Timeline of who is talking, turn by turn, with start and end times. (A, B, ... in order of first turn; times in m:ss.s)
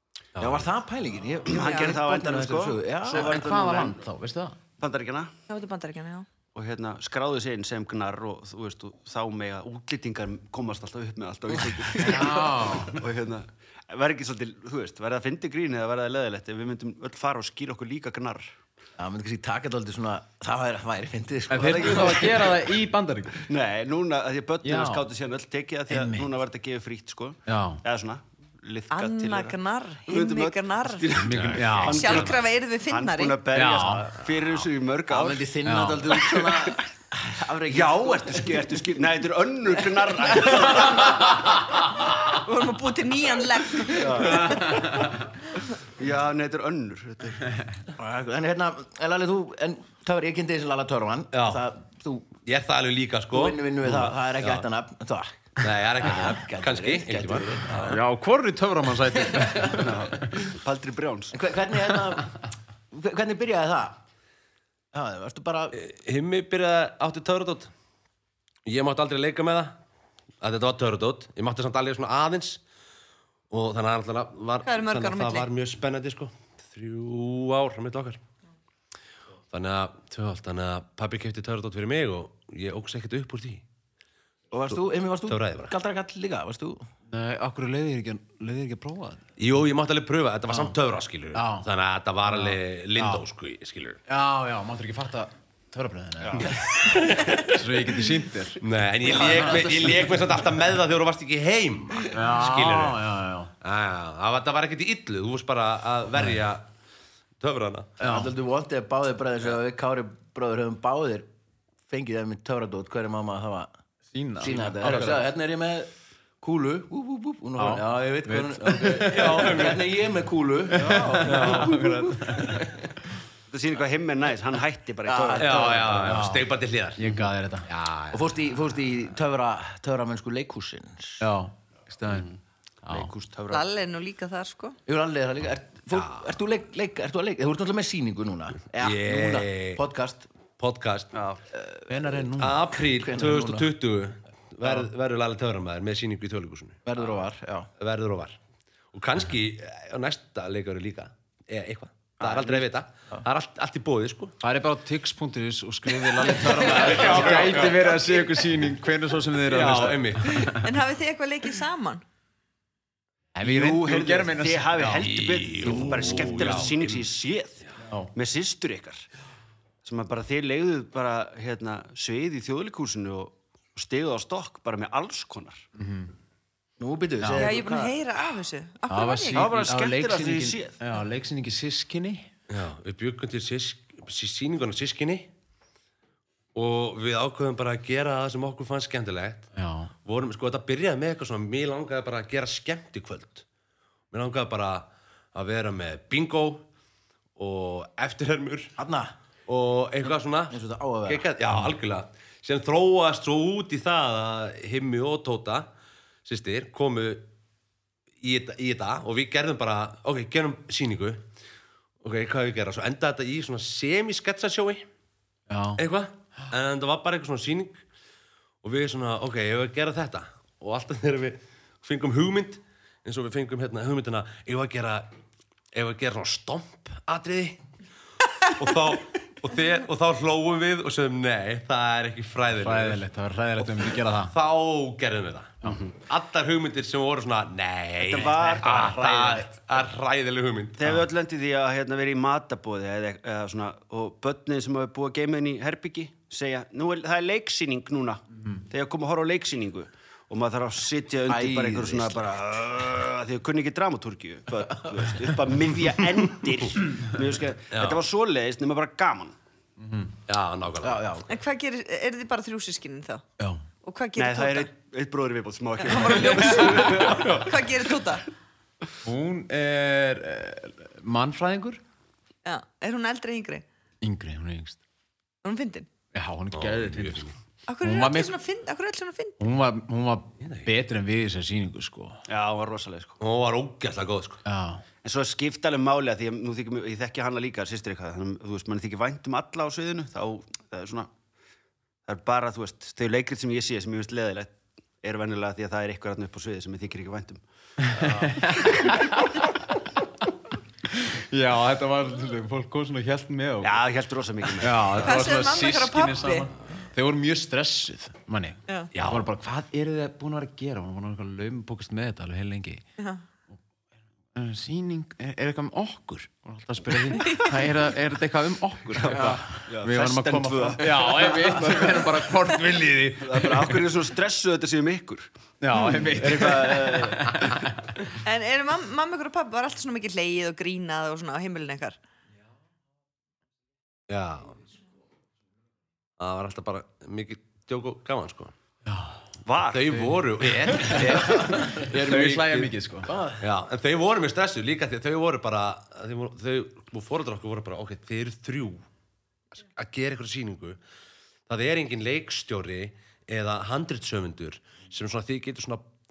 0:00.4-0:00.6 A
0:00.4-0:03.4 B
0:01.4-0:04.1 C
0:01.7-0:01.9 D
0:03.1-0:04.6 E
0:04.8-0:05.3 C
0:05.5-0:06.3 D
0:06.5-0:18.6 C
0:12.0-0:13.0 E
0:19.0-0:22.5 B
0:21.5-0:23.4 E
0:21.6-0:22.2 C
0:23.5-0:35.5 C
0:24.6-0:25.0 E
0:25.9-0:26.3 E
0:27.5-0:27.8 E
0:28.9-0:31.1 D
0:31.2-0:32.4 A
0:31.2-0:32.2 E
0:31.8-0:33.4 D
0:33.5-0:34.1 E
0:35.1-0:38.4 B
0:35.6-0:36.3 E
0:37.7-0:41.6 C
0:42.2-0:44.9 D
0:43.9-0:44.8 C
0:46.0-0:47.4 C
0:48.0-0:52.3 B
0:51.3-0:51.6 A
0:52.4-0:54.6 A
0:53.3-0:58.0 B
0:55.6-0:57.7 A
0:57.7-1:00.5 E
0:59.2-0:59.7 B
0:59.8-1:01.3 C
1:01.3-1:02.3 B
1:02.9-1:04.0 B
1:04.9-1:05.8 B
1:05.7-1:07.7 A
1:08.6-1:09.8 A
1:10.4-1:12.6 A
1:13.5-1:18.2 A
1:14.6-1:15.5 D
1:19.5-1:23.6 A
1:24.5-1:26.8 B
1:25.3-1:25.7 A
1:27.1-1:29.2 E
1:29.4-1:34.0 A
1:31.3-1:31.7 E
1:32.3-1:33.2 E
1:34.1-1:36.8 E
1:36.2-1:36.5 C
1:36.4-1:37.7 A
1:37.5-1:38.6 E
1:38.6-1:43.0 A
1:39.2-1:39.7 E
1:39.3-1:40.1 B
1:42.1-1:43.5 E
1:43.6-1:46.6 A
1:47.4-1:47.9 A
1:48.0-1:48.3 E
1:48.0-1:51.3 B
1:51.9-1:53.7 B
1:54.1-1:55.3 E
1:54.4-2:02.8 B
1:57.6-1:59.7 E
1:59.1-1:59.8 A
2:00.8-2:01.7 C
2:00.8-2:02.6 E
2:01.3-2:01.8 A
2:03.5-2:05.9 C
2:05.0-2:06.2 B
2:05.4-2:07.0 A
2:06.0-2:06.4 E
2:07.0-2:07.7 E
2:07.7-2:08.2 A
2:08.1-2:11.2 B
2:11.2-2:12.3 E
2:12.8-2:13.1 E
2:12.9-2:13.7 C
2:13.5-2:14.8 D
2:14.9-2:20.3 B
2:15.9-2:16.2 A
2:18.8-2:19.8 A
2:20.6-2:21.1 A
2:21.1-2:21.4 C
2:21.5-2:23.7 B
2:21.9-2:22.6 E
2:22.4-2:26.8 A
2:26.8-2:27.7 B
2:27.8-2:28.4 A
2:28.9-2:34.4 A
2:32.2-2:32.5 B
2:34.4-2:40.7 E
2:36.3-2:38.0 A
2:39.5-2:40.4 A
2:40.5-2:42.0 D
2:43.3-2:46.6 E
2:43.4-2:49.1 C
2:45.0-2:47.0 A
2:49.8-2:55.6 C
2:55.8-2:56.1 E
2:56.8-2:58.0 B
2:57.2-2:57.5 E
2:57.4-2:59.5 D
2:58.9-3:02.3 E
2:59.3-3:00.8 C
3:02.5-3:05.3 A
3:06.5-3:09.5 A
3:09.5-3:09.9 E
3:10.0-3:13.4 A
3:14.1-3:16.6 A
3:17.4-3:18.7 A
3:18.8-3:19.1 B
3:19.5-3:25.7 A
3:20.5-3:21.3 B
3:26.2-3:27.2 A
3:28.2-3:31.2 A
3:32.0-3:34.8 A
3:35.5-3:35.8 E
3:35.8-3:37.8 A
3:38.6-3:45.1 A
3:45.7-3:47.6 A
3:48.5-3:53.0 A
3:52.6-3:54.3 E
3:54.3-4:00.8 A
3:58.0-3:59.0 C
3:58.8-3:59.4 E
4:00.8-4:19.4 C
4:11.3-4:12.3 B
4:17.7-4:18.0 A
4:19.8-4:20.1 E
4:20.3-4:21.0 A
4:20.8-4:21.4 B
4:21.3-4:23.2 D
4:23.4-4:23.6 E
4:23.8-4:24.7 D
4:24.2-4:27.5 C
4:25.8-4:28.2 D
4:27.0-4:27.4 A
4:29.0-4:31.8 E
4:32.4-4:33.6 D
4:34.0-4:34.8 E
4:35.4-4:35.9 D
4:36.1-4:38.3 E
4:36.5-4:37.3 A
4:37.7-4:39.4 D
4:39.4-4:42.2 E
4:40.4-4:40.7 A
4:42.3-4:43.2 C
4:43.2-4:44.4 A
4:44.4-4:44.8 E
4:45.0-4:51.1 C
4:52.0-4:58.6 C
4:57.8-4:59.4 E
5:00.9-5:03.8 E
5:03.6-5:05.0 C
5:04.6-5:12.8 E
5:05.0-5:06.5 D
5:08.9-5:09.2 A
5:13.0-5:13.2 D
5:14.3-5:23.8 E
5:19.0-5:22.2 C
5:23.2-5:27.7 C
5:25.6-5:27.8 E
5:28.2-5:32.0 D
5:34.1-5:34.6 A
5:36.2-5:38.5 A
5:38.8-5:39.2 E
5:39.4-5:40.0 C
5:39.7-5:41.3 A
5:39.9-5:43.1 E
5:40.9-5:41.9 B
5:41.9-5:42.7 A
5:43.0-5:43.4 B
5:43.4-5:48.8 A
5:49.6-5:50.8 A
5:51.5-5:55.9 A